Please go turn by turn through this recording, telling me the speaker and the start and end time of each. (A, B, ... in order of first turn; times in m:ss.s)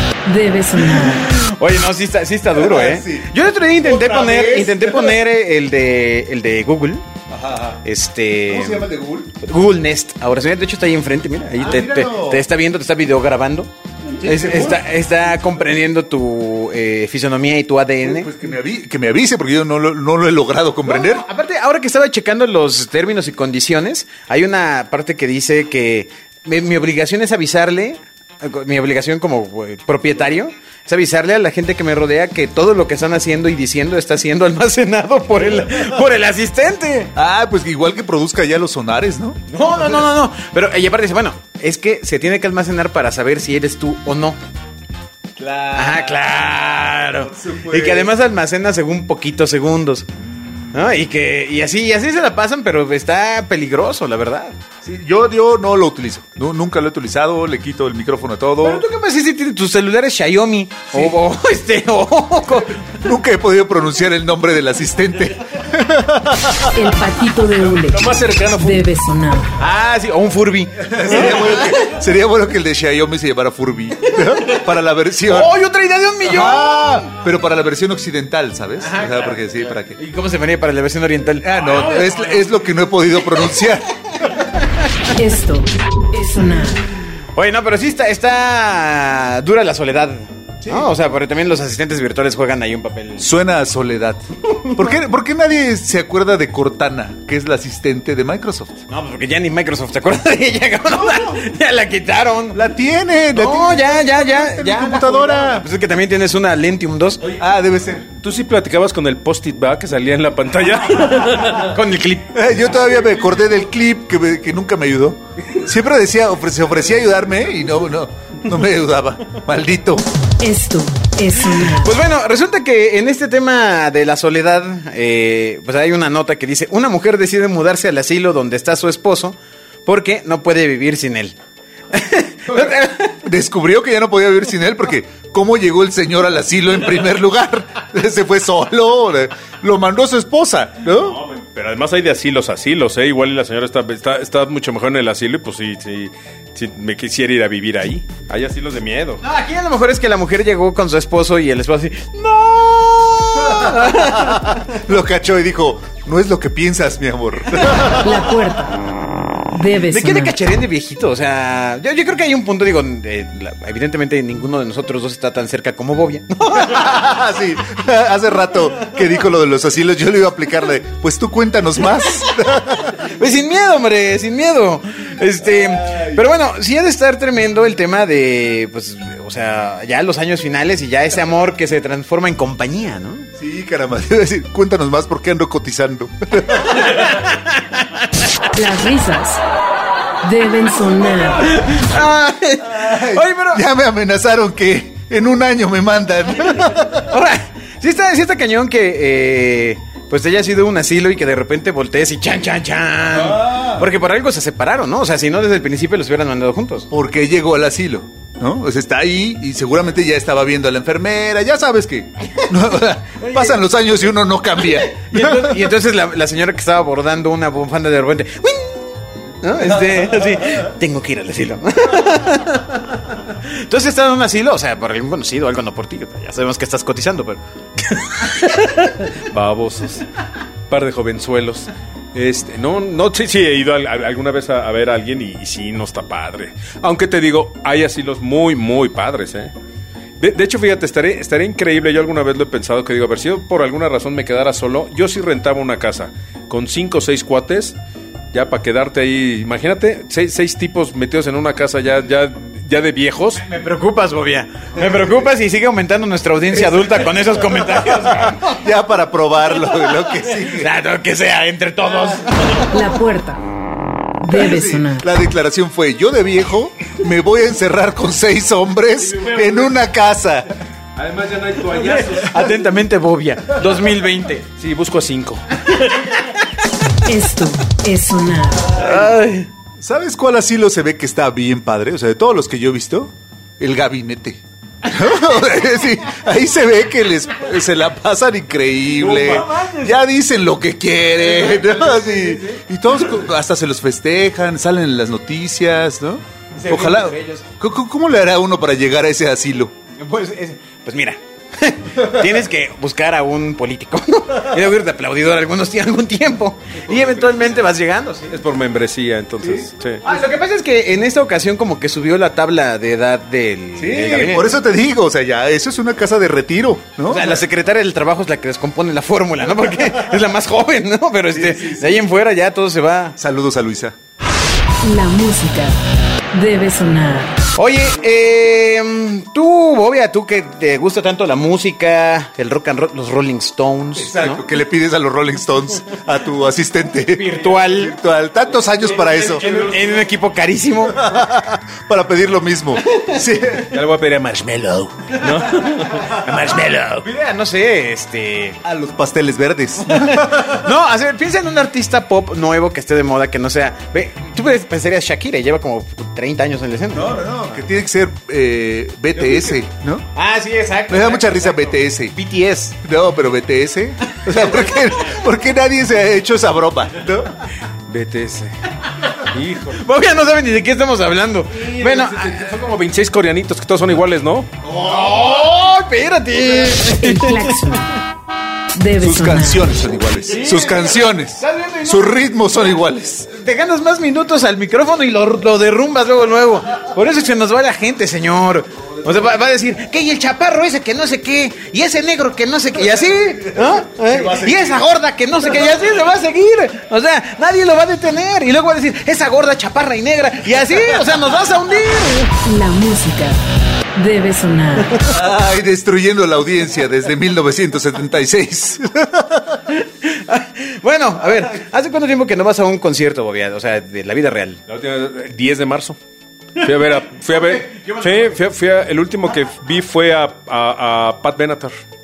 0:00.2-0:01.3 A
0:01.0-0:07.1 B
0:02.5-0:05.2 C
0:07.3-0:07.8 C
0:07.8-0:08.9 B
0:08.5-0:09.3 C
0:09.4-0:13.7 B
0:11.5-0:12.4 C
0:14.2-0:14.9 C
0:14.2-0:18.3 B
0:18.0-0:21.3 C
0:20.8-0:37.1 B
0:37.2-0:40.1 C
0:39.5-0:44.4 B
0:45.4-0:46.3 C
0:45.7-0:50.1 B
0:47.3-0:48.1 C
0:50.7-0:54.6 B
0:54.8-0:58.8 C
0:58.6-1:02.8 B
1:03.0-1:06.9 C
1:06.7-1:09.5 A
1:07.6-1:08.8 D
1:09.6-1:11.9 B
1:10.8-1:15.5 C
1:14.2-1:14.6 B
1:15.3-1:17.1 B
1:16.2-1:20.0 C
1:18.8-1:22.6 B
1:21.4-1:23.9 C
1:24.5-1:25.1 B
1:25.2-1:26.8 A
1:27.4-1:33.3 B
1:30.6-1:30.9 C
1:33.2-1:38.8 C
1:34.5-1:34.9 B
1:38.9-1:42.6 B
1:41.1-1:41.4 C
1:42.5-1:45.7 C
1:43.4-1:47.3 B
1:47.4-1:48.1 C
1:48.2-1:51.8 D
1:51.5-1:52.3 B
1:52.3-2:00.1 C
2:00.4-2:01.9 A
2:01.6-2:11.4 B
2:11.9-2:13.2 B
2:13.2-2:21.2 C
2:20.9-2:29.2 D
2:29.2-2:34.7 B
2:33.4-2:38.2 C
2:37.6-2:38.1 B
2:38.0-2:38.8 A
2:39.5-2:40.4 A
2:39.7-2:47.1 B
2:46.6-2:53.1 C
2:52.8-3:03.3 B
2:55.4-2:56.3 C
3:03.4-3:06.8 C
3:06.5-3:08.1 B
3:08.5-3:09.4 A
3:10.2-3:11.5 A
3:11.4-3:13.6 B
3:12.7-3:17.0 C
3:16.9-3:26.9 B
3:23.1-3:23.9 C
3:26.9-3:35.7 C
3:33.2-3:33.6 B
3:34.6-3:38.9 B
3:39.4-3:48.9 B
3:48.6-3:50.0 D
3:50.7-3:59.5 D
4:00.2-4:07.8 D
4:08.3-4:13.4 D
4:13.4-4:18.6 B
4:17.5-4:20.7 C
4:19.5-4:23.0 B
4:22.7-4:23.4 A
4:24.2-4:25.1 A
4:24.2-4:30.5 C
4:29.0-4:29.8 D
4:31.0-4:32.6 D
4:31.7-4:34.5 B
4:34.6-4:35.4 D
4:35.7-4:36.5 B
4:37.0-4:38.7 A
4:38.7-4:39.5 B
4:39.8-4:59.7 C
4:49.0-4:49.9 B
4:51.2-4:52.6 B
4:56.5-4:57.4 B
5:00.0-5:08.3 B
5:07.0-5:07.3 D
5:08.3-5:10.1 D
5:10.0-5:14.5 B
5:13.8-5:17.4 C
5:17.0-5:23.2 B
5:21.3-5:22.0 C
5:23.2-5:24.0 C
5:24.8-5:25.8 A
5:26.3-5:27.4 A
5:27.6-5:34.4 B
5:34.0-5:39.5 C
5:37.1-5:37.9 B
5:38.6-5:40.2 D
5:39.3-5:41.1 B
5:40.9-5:43.8 C
5:42.9-5:43.2 B
5:43.7-5:47.1 D
5:47.0-5:48.6 B
5:48.6-5:50.7 C
5:49.8-5:57.2 B
5:56.9-6:00.1 C
5:59.2-5:59.6 B
6:00.2-6:02.7 B
6:00.9-6:02.2 C
6:02.7-6:07.4 C
6:07.9-6:08.6 D
6:09.2-6:09.8 D
6:09.7-6:12.5 B
6:11.5-6:14.5 D
6:14.6-6:18.0 B
6:17.0-6:17.9 A
6:18.7-6:19.7 A
6:19.0-6:23.3 C
6:20.3-6:22.4 B
6:23.3-6:42.3 B
6:33.0-6:34.9 C
6:42.4-6:43.4 A
6:43.9-6:45.0 A
6:45.0-6:49.6 C
6:49.7-6:54.6 B
6:54.7-6:56.0 D
6:56.6-7:01.8 D
6:57.3-6:58.4 B